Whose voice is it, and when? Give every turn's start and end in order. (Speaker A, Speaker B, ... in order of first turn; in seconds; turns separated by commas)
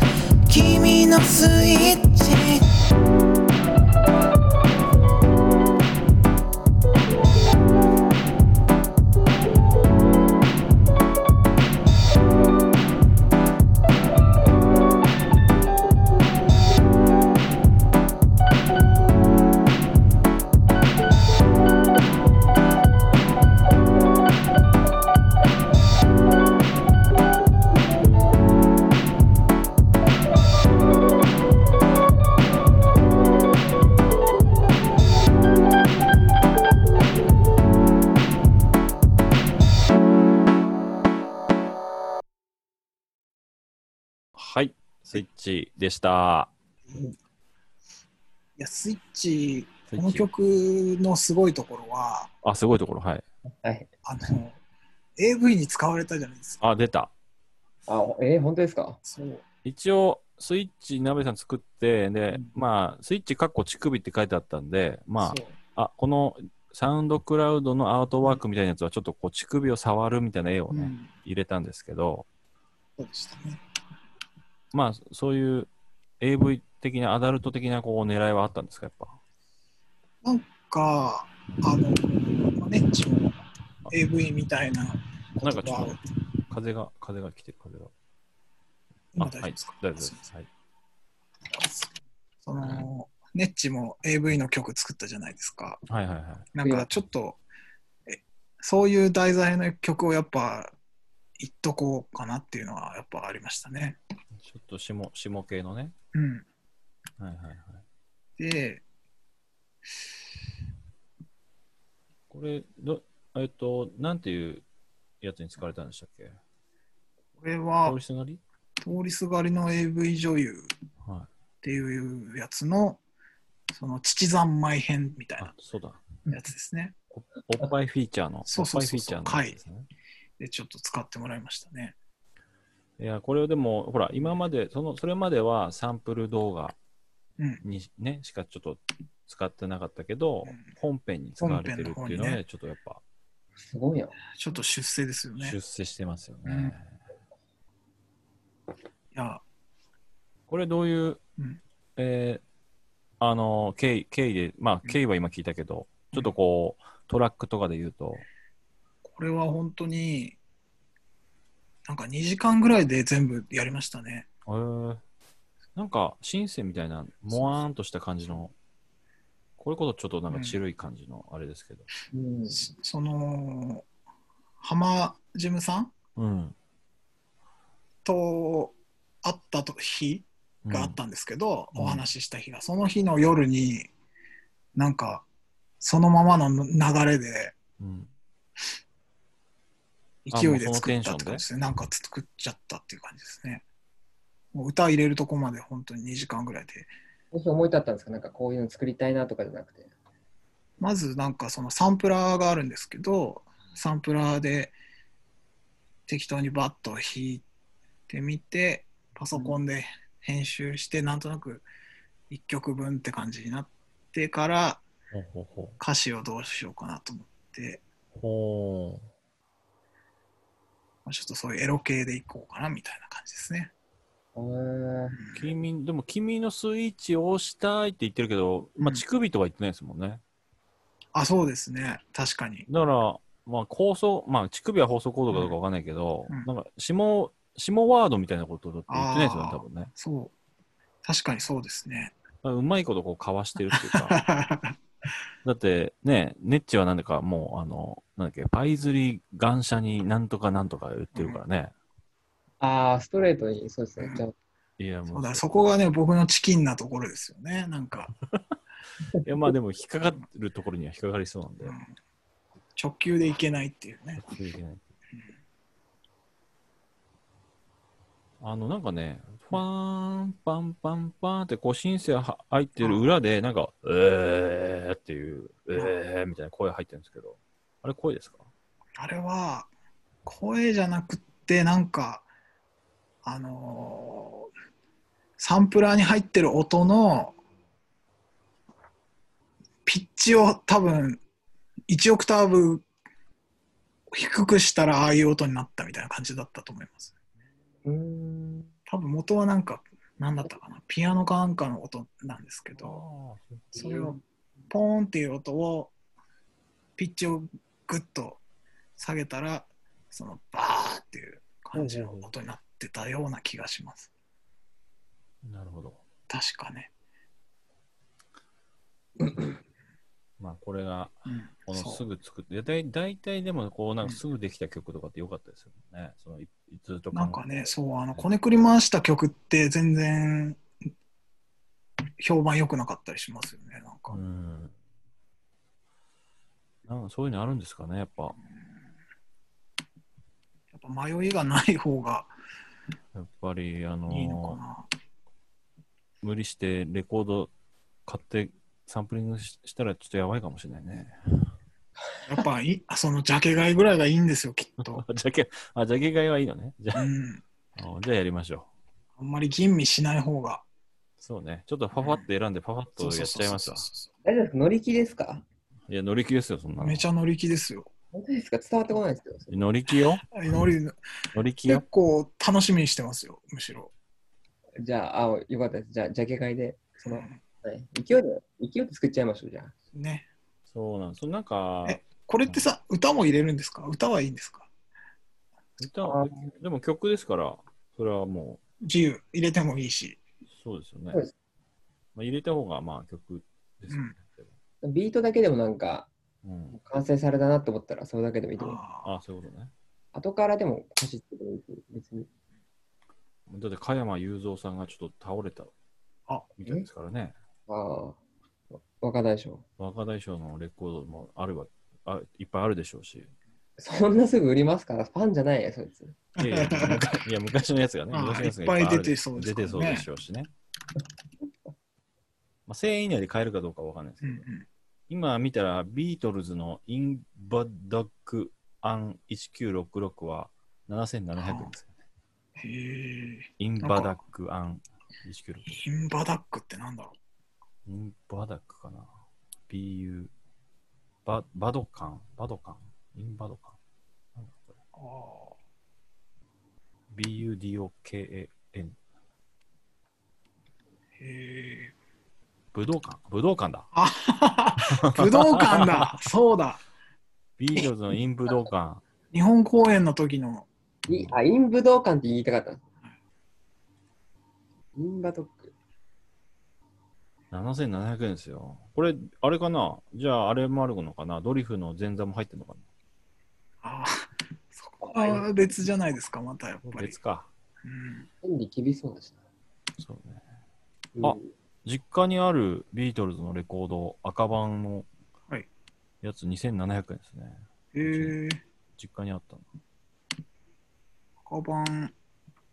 Speaker A: 0.5-2.7, Speaker B: 44.4-46.5, Speaker C: 46.9-47.1, Speaker C: 48.6-52.3, Speaker B: 49.9-50.3, Speaker B: 52.4-53.2, Speaker D: 53.5-53.9, Speaker C: 54.0-54.6, Speaker C: 55.2-56.6, Speaker B: 56.6-57.1, Speaker D: 57.9-59.0, Speaker C: 59.0-59.4, Speaker B: 59.6-72.3, Speaker C: 70.7-71.1, Speaker C: 73.0-73.6, Speaker B: 74.7-79.2, Speaker C: 80.2-86.0, Speaker B: 85.4-87.9, Speaker C: 89.1-90.3, Speaker B: 89.2-90.5, Speaker C: 91.5-91.9, Speaker C: 92.4-95.8, Speaker B: 92.6-92.9, Speaker B: 95.9-96.5, Speaker C: 96.5-97.4, Speaker D: 96.6-96.9, Speaker C: 98.1-100.8, Speaker C: 101.4-104.0, Speaker B: 104.4-105.9, Speaker C: 106.1-106.5, Speaker B: 107.2-107.8, Speaker C: 108.4-108.8, Speaker B: 112.3-114.6, Speaker B: 115.2-116.4, Speaker C: 117.4-118.0, Speaker B: 117.8-118.4, Speaker C: 118.8-120.7, Speaker B: 121.0-121.3, Speaker C: 121.6-123.0, Speaker C: 123.7-125.5, Speaker B: 125.4-126.1, Speaker C: 126.3-127.0, Speaker B: 127.1-129.9, Speaker C: 128.5-129.6, Speaker C: 130.4-132.0, Speaker B: 133.0-136.8, Speaker B: 137.6-143.0, Speaker C: 141.4-142.4, Speaker D: 143.6-144.2, Speaker C: 144.4-145.6, Speaker B: 145.4-146.9, Speaker C: 146.4-146.8, Speaker C: 149.1-149.4, Speaker B: 150.5-151.2, Speaker B: 152.0-152.4, Speaker B: 153.2-158.3, Speaker C: 159.0-160.4, Speaker C: 161.9-164.3, Speaker B: 164.5-165.0, Speaker B: 165.8-168.5, Speaker B: 169.6-171.9, Speaker C: 170.3-170.6, Speaker D: 172.1-172.7, Speaker C: 172.5-173.9, Speaker C: 174.6-175.9, Speaker B: 176.2-176.6, Speaker C: 178.1-183.9, Speaker B: 180.7-181.0, Speaker B: 181.7-182.1, Speaker C: 184.8-185.3, Speaker C: 185.8-187.6, Speaker B: 187.8-188.1, Speaker C: 190.2-193.7, Speaker B: 190.3-191.4, Speaker C: 194.5-196.9, Speaker D: 197.3-199.9, Speaker C: 200.8-204.8, Speaker C: 206.1-207.4, Speaker C: 208.1-211.7, Speaker C: 212.3-214.8, Speaker B: 215.1-215.8, Speaker C: 215.8-217.8, Speaker B: 218.2-219.1, Speaker C: 221.1-223.7, Speaker D: 224.3-225.2, Speaker C: 225.1-225.5, Speaker B: 225.3-230.2, Speaker C: 228.8-229.0, Speaker C: 231.1-232.7, Speaker B: 232.7-239.9, Speaker C: 238.9-240.3, Speaker C: 241.0-242.2, Speaker B: 242.4-244.2, Speaker C: 243.7-244.8, Speaker B: 245.4-251.7, Speaker C: 251.1-251.4, Speaker D: 252.6-254.3, Speaker B: 254.8-255.6, Speaker C: 255.1-258.1, Speaker B: 259.2-261.8, Speaker C: 261.6-261.9, Speaker C: 262.8-264.2, Speaker B: 264.2-264.8, Speaker B: 268.4-278.5, Speaker C: 272.8-273.1, Speaker C: 279.0-279.7, Speaker C: 280.2-282.3, Speaker C: 283.2-284.5, Speaker C: 285.4-287.4, Speaker C: 289.9-291.2, Speaker C: 291.9-292.9, Speaker C: 294.1-297.1, Speaker D: 297.9-298.7, Speaker C: 298.9-303.0, Speaker B: 302.8-304.0, Speaker C: 303.8-304.2, Speaker D: 303.8-304.1, Speaker C: 304.7-305.9, Speaker C: 307.0-308.4, Speaker C: 309.0-314.1, Speaker B: 311.8-312.3, Speaker B: 315.4-316.0, Speaker C: 316.3-316.9, Speaker B: 320.4-328.3, Speaker C: 321.3-322.0, Speaker C: 327.1-330.6, Speaker C: 332.2-334.2, Speaker B: 334.1-334.8, Speaker B: 336.9-338.4, Speaker C: 340.7-342.3, Speaker B: 343.1-344.6, Speaker C: 344.1-344.9, Speaker B: 346.2-347.5, Speaker B: 348.1-351.5, Speaker C: 352.3-355.0, Speaker B: 354.9-357.1, Speaker C: 356.9-357.4, Speaker B: 357.8-358.7, Speaker C: 359.2-360.6, Speaker B: 361.2-363.9, Speaker C: 362.0-362.3, Speaker C: 363.0-364.1, Speaker D: 364.2-365.4, Speaker B: 365.9-367.1, Speaker C: 366.8-367.9, Speaker D: 368.1-369.6, Speaker B: 369.5-370.3, Speaker C: 370.3-371.0, Speaker B: 371.3-371.8, Speaker C: 371.7-373.9, Speaker D: 374.8-379.7, Speaker C: 377.0-377.4, Speaker C: 379.9-380.3, Speaker B: 380.7-382.7, Speaker C: 381.9-384.7, Speaker B: 385.8-388.6, Speaker D: 386.0-386.5, Speaker C: 388.8-390.2, Speaker B: 390.5-391.2, Speaker B: 392.1-394.5, Speaker C: 393.9-394.1, Speaker D: 394.8-396.1, Speaker B: 396.4-396.8, Speaker D: 396.7-398.8, Speaker C: 398.6-399.1, Speaker B: 399.0-399.7, Speaker D: 400.1-402.3, Speaker B: 403.5-405.7, Speaker B: 406.6-407.3, Speaker D: 407.7-408.2, Speaker D: 408.7-409.6, Speaker B: 409.8-413.3, Speaker D: 413.8-416.2, Speaker C: 416.4-417.2, Speaker B: 416.4-420.5, Speaker C: 418.1-420.1, Speaker B: 422.7-424.5, Speaker C: 424.2-424.7, Speaker B: 425.1-432.0, Speaker C: 431.4-431.7, Speaker C: 432.6-434.2, Speaker B: 433.6-435.8, Speaker C: 435.7-437.2, Speaker B: 437.9-439.1, Speaker B: 439.7-440.3, Speaker B: 441.3-443.8, Speaker B: 444.4-444.8, Speaker C: 444.9-445.6, Speaker B: 447.1-449.0, Speaker C: 451.2-451.9, Speaker B: 452.7-453.9, Speaker C: 453.9-456.8, Speaker B: 454.9-456.3, Speaker B: 457.6-459.0, Speaker C: 459.3-460.7, Speaker B: 461.1-461.4, Speaker D: 461.1-462.8, Speaker D: 465.0-465.7, Speaker B: 467.5-472.9, Speaker C: 473.8-477.2, Speaker B: 476.9-477.5, Speaker C: 477.8-478.3, Speaker D: 478.4-479.4, Speaker B: 480.0-480.4, Speaker D: 481.2-481.5, Speaker B: 481.2-485.1, Speaker B: 486.2-488.4, Speaker C: 487.9-488.6, Speaker B: 489.0-489.7, Speaker C: 491.4-492.1